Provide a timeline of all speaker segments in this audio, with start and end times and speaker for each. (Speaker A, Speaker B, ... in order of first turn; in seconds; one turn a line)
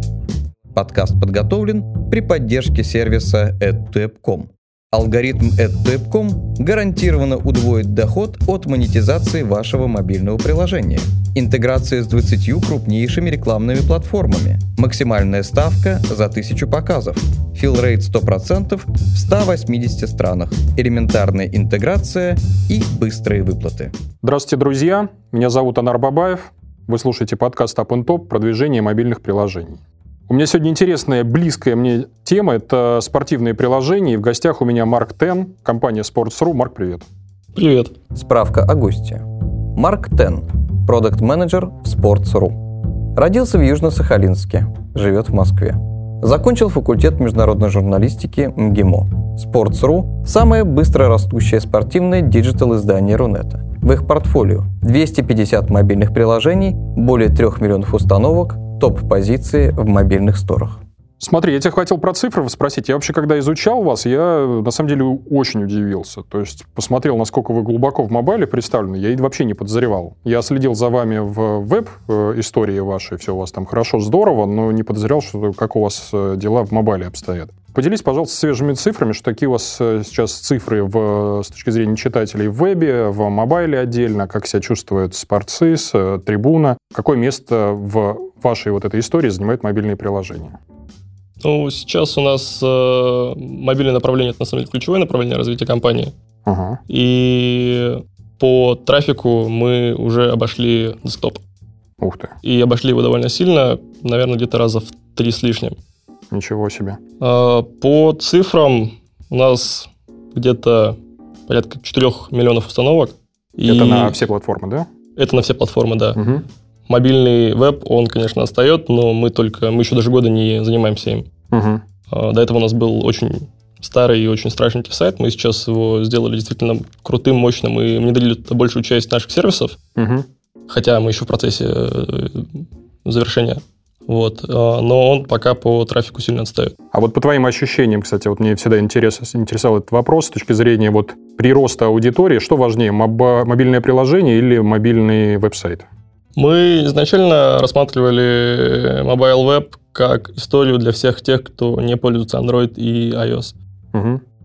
Speaker A: 0.7-23.9
Speaker B: 24.2-37.1
Speaker C: 37.5-37.9
Speaker A: 38.1-42.6
Speaker A: 43.1-60.8
Speaker B: 61.2-90.6
Speaker C: 91.4-96.1
Speaker B: 96.5-96.8
Speaker C: 96.9-101.4
Speaker B: 102.0-102.3
Speaker C: 102.4-105.8
Speaker B: 106.3-107.0
Speaker C: 107.2-114.2
Speaker B: 113.7-114.9
Speaker C: 115.2-116.2
Speaker B: 116.2-116.4
Speaker C: 116.9-121.3
Speaker B: 121.5-121.8
Speaker C: 122.1-129.8
Speaker B: 130.0-130.3
Speaker C: 130.7-136.8
Speaker B: 136.9-145.8
Speaker C: 146.4-153.6
Speaker B: 153.9-154.2